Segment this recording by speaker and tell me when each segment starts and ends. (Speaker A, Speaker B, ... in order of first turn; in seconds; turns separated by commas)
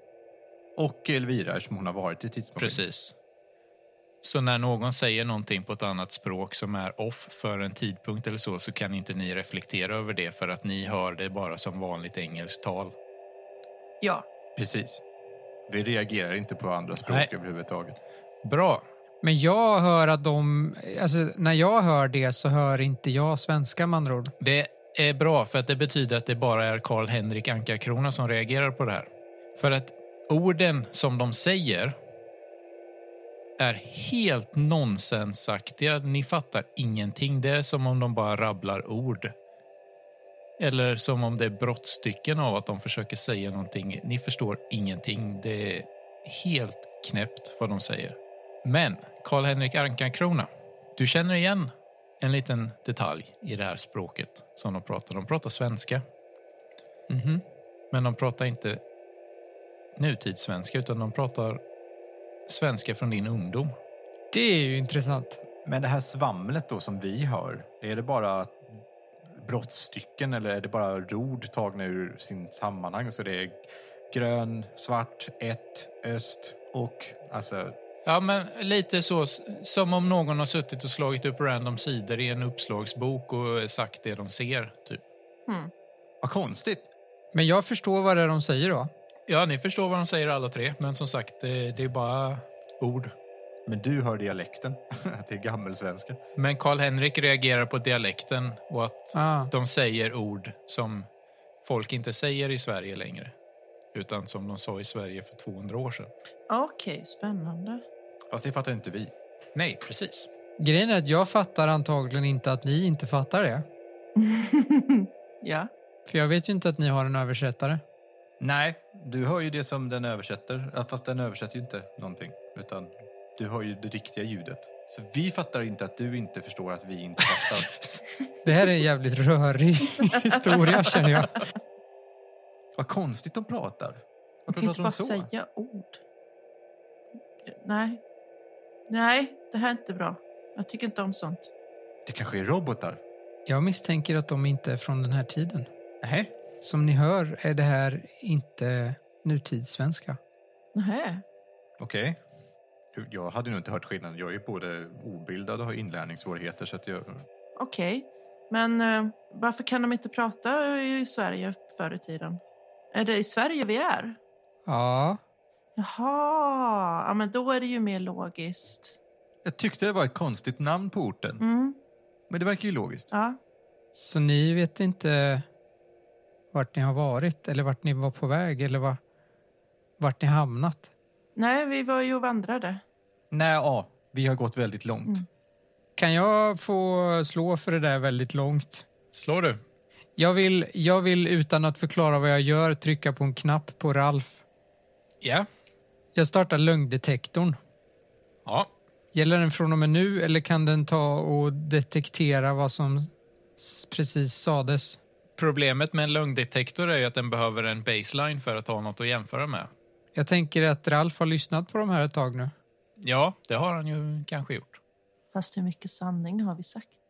Speaker A: 0.8-2.8, Speaker B: 2.6-3.1, Speaker B: 4.2-12.9, Speaker C: 14.0-14.3, Speaker A: 14.6-15.0, Speaker A: 15.7-18.0, Speaker B: 18.4-18.9, Speaker D: 19.2-24.3, Speaker B: 24.4-31.9, Speaker B: 33.6-39.3, Speaker B: 40.6-56.0, Speaker D: 57.1-57.4, Speaker B: 57.9-58.8, Speaker B: 60.0-61.6, Speaker B: 62.5-63.7, Speaker D: 64.3-65.4, Speaker A: 65.7-68.6, Speaker A: 69.3-77.7, Speaker B: 78.0-85.0, Speaker A: 86.2-86.9, Speaker D: 87.3-88.9, Speaker B: 89.3-93.1, Speaker A: 93.7-96.2, Speaker B: 96.4-101.1, Speaker D: 99.1-99.5, Speaker B: 101.6-103.3, Speaker B: 103.9-106.1, Speaker C: 106.5-107.8, Speaker A: 108.3-109.1, Speaker B: 109.5-110.3, Speaker D: 110.6-113.7, Speaker C: 114.2-115.7, Speaker D: 116.1-117.8, Speaker A: 118.4-127.8, Speaker D: 128.4-131.4, Speaker A: 132.8-135.3, Speaker C: 134.5-136.0, Speaker C: 137.5-138.0, Speaker C: 138.9-141.5, Speaker A: 142.1-143.0, Speaker D: 143.5-145.7, Speaker A: 146.0-146.3, Speaker D: 146.6-150.2, Speaker C: 150.7-151.2, Speaker A: 151.8-152.2, Speaker A: 152.9-157.2, Speaker C: 157.6-162.4, Speaker C: 162.9-164.2, Speaker D: 164.7-165.2, Speaker C: 165.8-169.0, Speaker A: 169.4-171.4, Speaker C: 171.4-171.8, Speaker A: 172.3-173.1, Speaker C: 173.1-173.4, Speaker D: 173.9-175.4, Speaker D: 176.5-179.0, Speaker D: 180.0-180.9, Speaker C: 181.4-182.8, Speaker A: 183.3-185.3, Speaker D: 186.0-188.8, Speaker B: 189.1-189.6, Speaker D: 190.2-194.4, Speaker B: 195.2-195.5, Speaker D: 196.2-197.6, Speaker B: 198.4-198.7, Speaker D: 199.1-205.0, Speaker B: 205.4-209.7, Speaker D: 210.2-212.5, Speaker B: 213.0-214.8, Speaker C: 215.3-216.9